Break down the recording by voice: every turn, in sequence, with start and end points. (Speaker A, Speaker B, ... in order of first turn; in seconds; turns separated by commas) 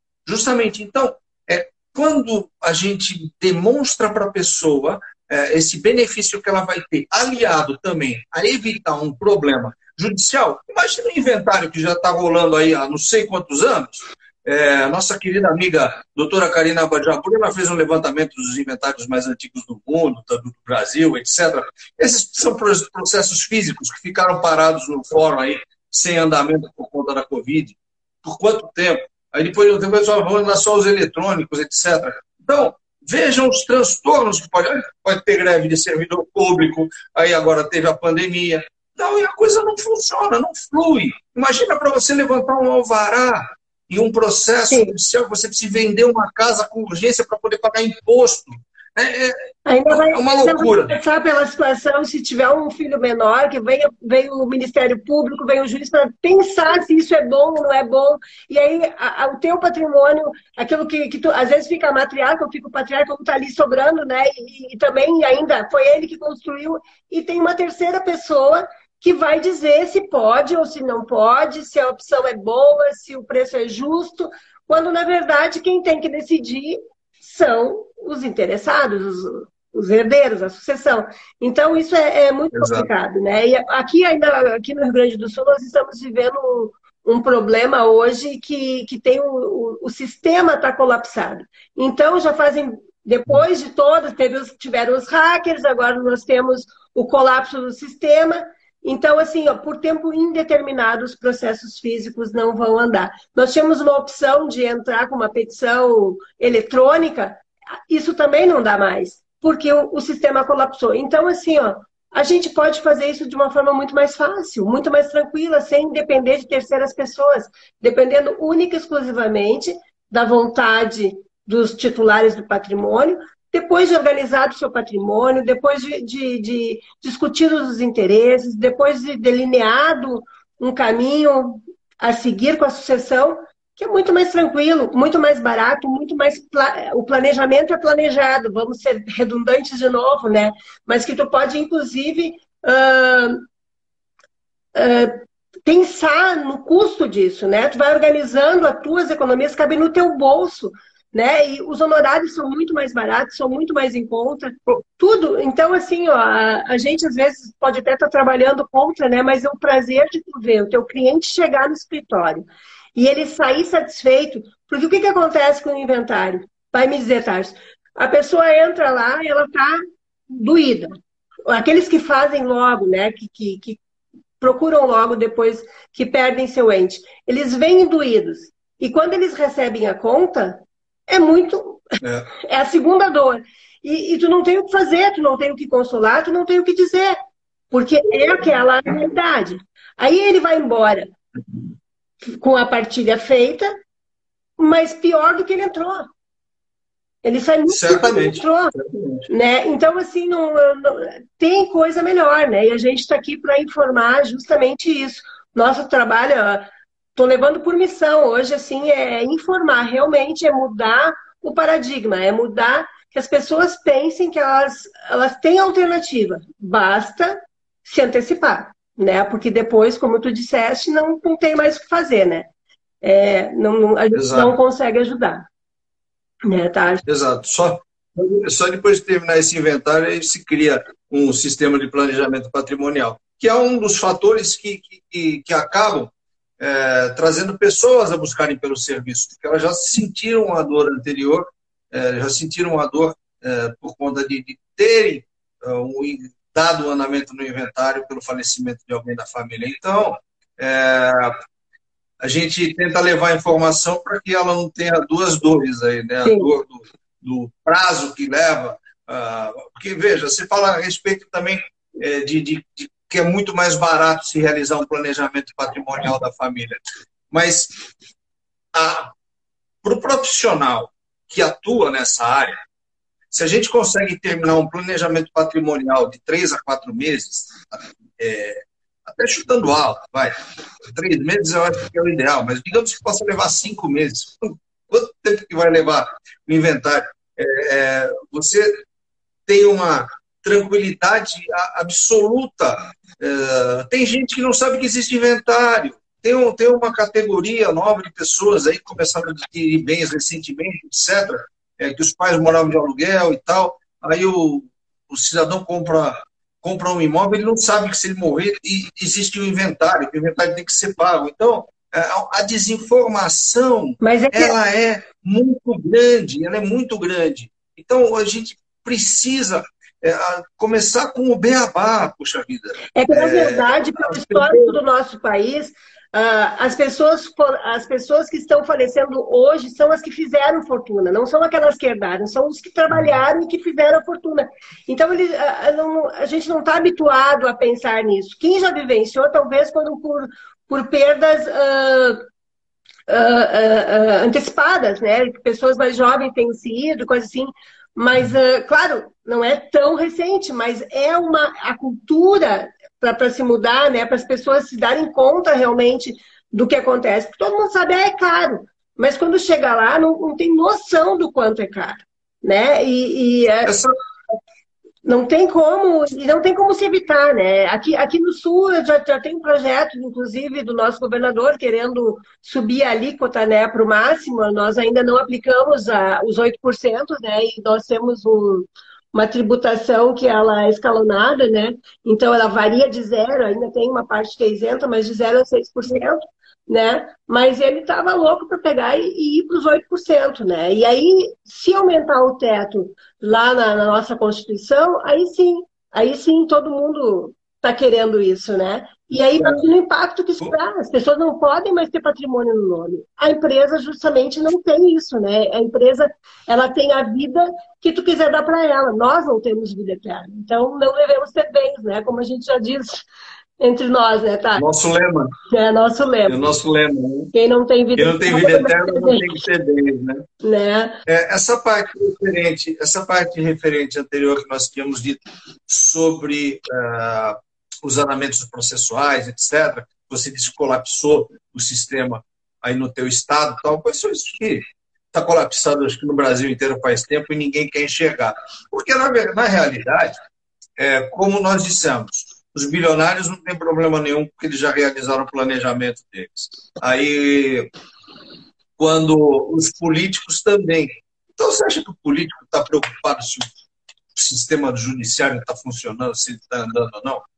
Speaker A: 0.2-51.0, Speaker B: 49.6-143.4, Speaker A: 82.5-82.9, Speaker B: 144.7-170.9, Speaker B: 171.5-173.8, Speaker B: 174.4-181.8, Speaker A: 182.0-182.3, Speaker B: 182.4-187.2, Speaker B: 187.7-191.1, Speaker B: 192.4-193.7, Speaker B: 194.6-196.1, Speaker B: 197.2-198.7, Speaker A: 197.7-199.2, Speaker B: 199.3-222.5, Speaker B: 223.0-225.4, Speaker A: 224.1-224.5, Speaker B: 226.4-227.0, Speaker A: 227.1-251.4, Speaker A: 252.2-267.7, Speaker B: 256.2-256.5, Speaker A: 268.7-269.1, Speaker A: 269.8-272.6, Speaker A: 273.3-280.3, Speaker A: 280.9-288.8, Speaker A: 289.5-324.7, Speaker B: 314.0-314.6, Speaker B: 322.9-342.2, Speaker B: 343.1-363.7, Speaker A: 363.6-363.9, Speaker B: 365.0-413.1, Speaker A: 399.4-399.6, Speaker B: 413.6-414.6, Speaker A: 414.6-415.3, Speaker B: 415.5-416.4, Speaker A: 416.3-417.3, Speaker B: 417.3-419.3, Speaker A: 417.9-420.2, Speaker B: 420.4-421.0, Speaker A: 421.1-440.2, Speaker A: 440.8-447.7, Speaker A: 448.8-453.5, Speaker A: 454.1-457.2